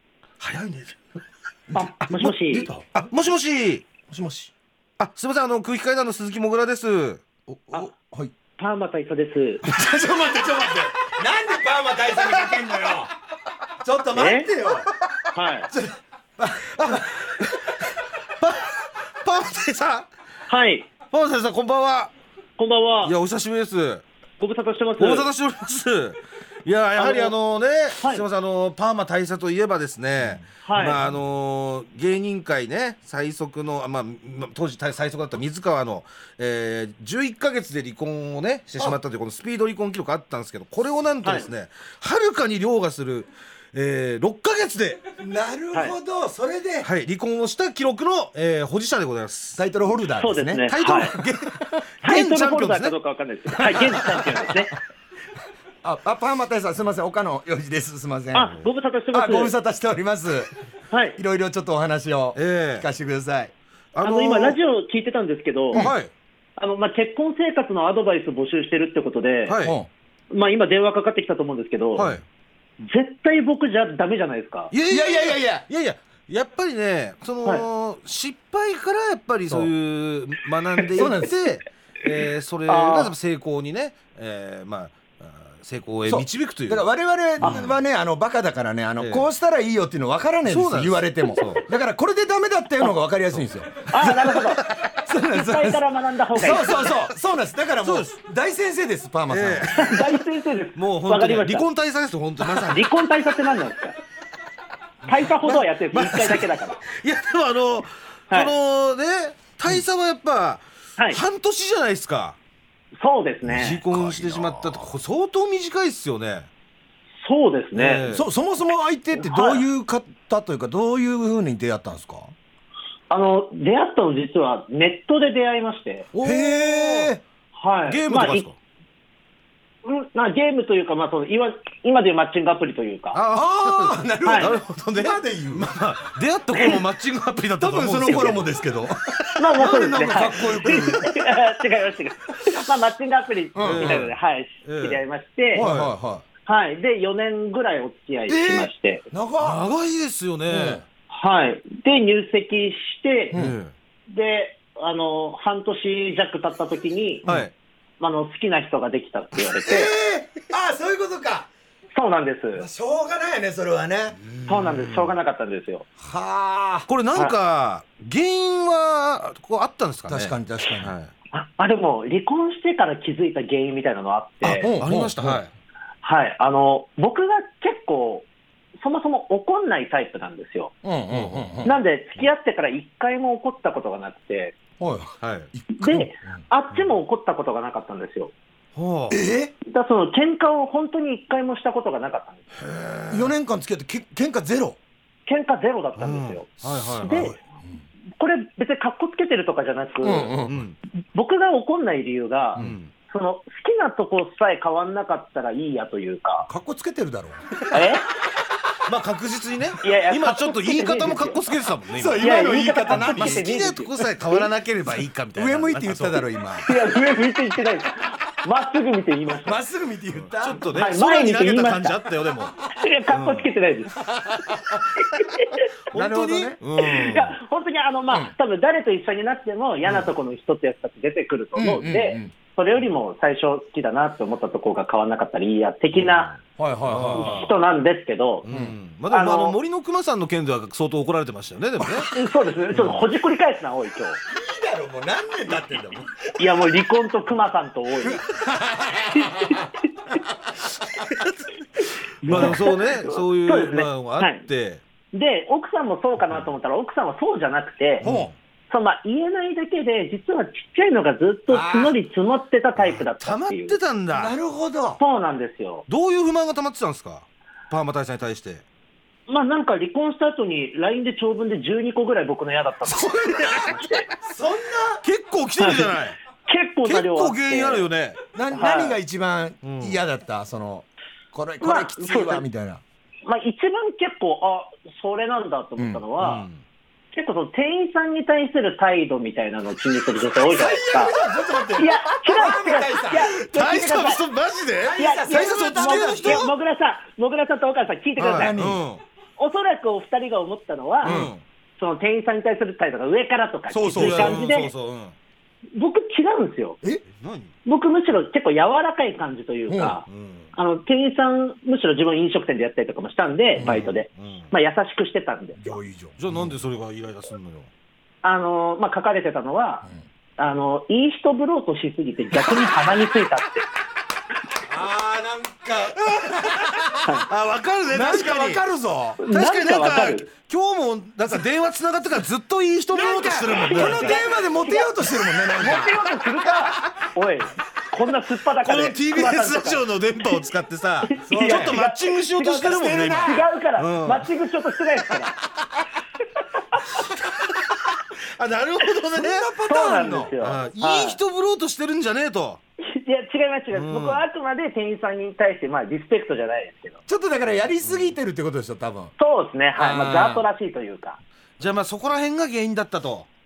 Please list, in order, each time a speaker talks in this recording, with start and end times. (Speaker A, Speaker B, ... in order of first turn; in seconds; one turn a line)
Speaker A: 0.4-1.0
Speaker B: 1.7-2.7
Speaker C: 1.8-2.9
Speaker A: 2.9-3.9
Speaker C: 4.1-4.5
Speaker A: 5.0-7.2
Speaker C: 7.5-8.3
Speaker B: 8.6-9.7
Speaker C: 9.6-13.1
Speaker C: 13.8-14.9
Speaker B: 14.1-14.5
Speaker B: 15.3-15.7
Speaker C: 15.7-17.5
Speaker A: 16.9-17.5
Speaker A: 18.4-20.1
Speaker B: 20.5-20.9
Speaker A: 21.1-22.1
Speaker B: 22.6-23.1
Speaker A: 23.0-24.0
Speaker B: 24.4-25.3
Speaker A: 25.0-45.1
Speaker B: 27.0-27.3
Speaker B: 30.6-31.0
Speaker C: 45.2-46.9
Speaker A: 46.8-49.6
Speaker C: 49.6-50.7
Speaker B: 50.2-51.2
Speaker A: 50.7-53.0
Speaker B: 52.0-54.8
Speaker C: 53.7-54.6
Speaker C: 55.8-58.6
Speaker B: 58.3-59.5
Speaker C: 59.1-60.5
Speaker B: 60.9-61.2
Speaker C: 61.2-63.5
Speaker A: 62.4-62.9
Speaker A: 64.0-64.6
Speaker B: 64.0-65.9
Speaker A: 65.7-66.1
Speaker B: 66.6-69.6
Speaker A: 69.5-69.8
Speaker C: 69.6-69.9
Speaker B: 70.3-72.1
Speaker A: 72.0-72.2
Speaker B: 72.8-74.7
Speaker A: 74.7-86.9
Speaker C: 74.9-75.7
Speaker C: 80.9-81.4
Speaker B: 82.7-83.1
Speaker C: 86.1-100.0
Speaker A: 87.4-87.7
Speaker B: 87.4-87.7
Speaker A: 89.0-89.3
Speaker A: 90.5-91.7
Speaker B: 93.9-94.7
Speaker A: 94.0-94.9
Speaker B: 95.2-97.0
Speaker A: 97.8-98.1
Speaker A: 99.3-100.0
Speaker B: 99.7-101.7
Speaker A: 100.8-102.9
Speaker B: 102.5-104.0
Speaker B: 105.1-106.8
Speaker A: 105.4-112.4
Speaker B: 113.0-113.8
Speaker A: 113.5-116.5
Speaker C: 113.8-114.9
Speaker B: 117.2-118.1
Speaker A: 117.7-118.3
Speaker C: 118.1-122.3
Speaker B: 119.2-119.6
Speaker B: 123.1-126.1
Speaker C: 126.2-127.2
Speaker A: 126.2-127.1
Speaker B: 127.6-128.4
Speaker A: 127.9-128.6
Speaker B: 129.8-133.2
Speaker A: 133.1-138.5
Speaker C: 133.3-135.7
Speaker B: 134.2-134.5
Speaker C: 137.6-141.2
Speaker B: 139.4-145.6
Speaker C: 143.6-144.1
Speaker A: 143.6-145.0
Speaker C: 145.5-146.2
Speaker A: 145.6-145.9
Speaker B: 146.5-149.0
Speaker C: 148.3-149.6
Speaker A: 149.4-150.8
Speaker C: 150.5-150.8
Speaker B: 151.1-153.4
Speaker A: 153.3-153.7
Speaker B: 154.1-157.2
Speaker A: 157.3-157.5
Speaker B: 158.0-159.9
Speaker C: 159.6-161.5
Speaker B: 161.9-162.7
Speaker C: 162.5-164.2
Speaker A: 164.3-165.2
Speaker B: 164.5-165.9
Speaker C: 166.0-166.9
Speaker A: 166.9-171.1
Speaker C: 170.1-170.9
Speaker B: 171.3-174.7
Speaker C: 174.4-175.4
Speaker A: 174.6-175.5
Speaker B: 176.0-178.3
Speaker B: 178.8-180.7
Speaker C: 180.8-181.8
Speaker A: 181.1-181.5
Speaker B: 181.6-184.6
Speaker C: 184.8-186.4
Speaker A: 185.2-185.5
Speaker B: 185.8-188.3
Speaker A: 188.8-189.2
Speaker C: 189.1-189.5
Speaker B: 189.7-192.4
Speaker A: 192.6-193.3
Speaker C: 193.1-194.8
Speaker B: 195.3-197.4
Speaker A: 196.0-197.4
Speaker C: 197.1-197.3
Speaker B: 198.2-200.3
Speaker C: 200.0-200.7
Speaker A: 200.4-200.8
Speaker B: 201.1-206.5
Speaker A: 202.6-202.9
Speaker C: 206.5-207.6
Speaker B: 207.7-208.1
Speaker A: 208.8-216.3
Speaker B: 209.8-211.4
Speaker C: 211.9-213.5
Speaker B: 212.2-214.5
Speaker C: 215.3-216.8
Speaker B: 216.6-219.6
Speaker C: 219.4-220.7
Speaker A: 220.3-222.6
Speaker B: 220.7-222.0
Speaker B: 222.7-224.1
Speaker A: 223.1-223.5
Speaker C: 224.2-224.8
Speaker B: 225.1-225.7
Speaker A: 225.9-227.4
Speaker C: 225.9-226.6
Speaker B: 226.8-236.3
Speaker C: 228.1-228.3
Speaker C: 231.6-232.3
Speaker A: 235.9-237.5
Speaker C: 236.6-237.5
Speaker B: 237.1-238.5
Speaker A: 238.4-242.1
Speaker C: 238.5-238.8
Speaker B: 239.1-239.6
Speaker C: 241.8-242.1
Speaker B: 242.1-244.2
Speaker C: 244.3-246.3
Speaker B: 246.4-248.2
Speaker C: 248.0-249.7
Speaker B: 249.2-249.7
Speaker A: 251.2-251.4
Speaker B: 252.2-254.4
Speaker A: 252.2-254.8
Speaker C: 252.3-252.7
Speaker B: 255.1-258.1
Speaker C: 258.0-258.3
Speaker A: 258.0-258.3
Speaker B: 258.7-263.8
Speaker C: 261.5-262.0
Speaker A: 262.8-264.4
Speaker C: 264.1-265.0
Speaker B: 265.0-265.9
Speaker A: 265.9-268.6
Speaker B: 269.3-274.1
Speaker A: 272.9-273.8
Speaker C: 274.2-275.0
Speaker A: 275.0-276.2
Speaker B: 275.6-277.9
Speaker A: 276.8-278.2
Speaker C: 278.3-282.8
Speaker B: 278.5-279.0
Speaker A: 279.6-280.0
Speaker B: 281.6-282.4
Speaker B: 283.2-286.5
Speaker C: 285.8-286.1
Speaker A: 286.2-286.6
Speaker B: 287.1-291.1
Speaker C: 290.4-293.3
Speaker B: 291.8-294.2
Speaker A: 293.4-296.5
Speaker C: 294.8-296.5
Speaker B: 295.0-298.6
Speaker A: 298.2-299.0
Speaker C: 298.3-298.8
Speaker B: 299.4-301.2
Speaker C: 301.0-301.3
Speaker A: 301.0-301.4
Speaker B: 301.8-304.7
Speaker A: 303.7-305.1
Speaker C: 303.7-304.5
Speaker B: 305.8-306.8
Speaker A: 307.2-307.5
Speaker B: 307.7-315.8
Speaker C: 309.7-310.0
Speaker A: 310.1-310.5
Speaker C: 313.6-313.9
Speaker A: 313.6-314.5
Speaker C: 315.6-316.6
Speaker A: 316.2-317.7
Speaker B: 318.2-319.9
Speaker B: 320.4-323.7
Speaker C: 324.6-327.0
Speaker A: 326.1-328.6
Speaker C: 327.9-329.2
Speaker B: 329.2-330.3
Speaker A: 329.3-334.2
Speaker C: 332.9-336.0
Speaker B: 333.5-334.9
Speaker B: 335.4-339.9
Speaker A: 338.6-344.3
Speaker B: 341.1-345.4
Speaker C: 341.2-341.8
Speaker C: 342.4-343.4
Speaker A: 348.2-349.5
Speaker C: 349.1-350.3
Speaker B: 349.7-351.2
Speaker A: 350.4-352.6
Speaker B: 352.8-357.0
Speaker A: 353.7-354.2
Speaker C: 357.1-359.1
Speaker B: 359.2-361.2
Speaker C: 359.8-360.5
Speaker A: 361.6-363.3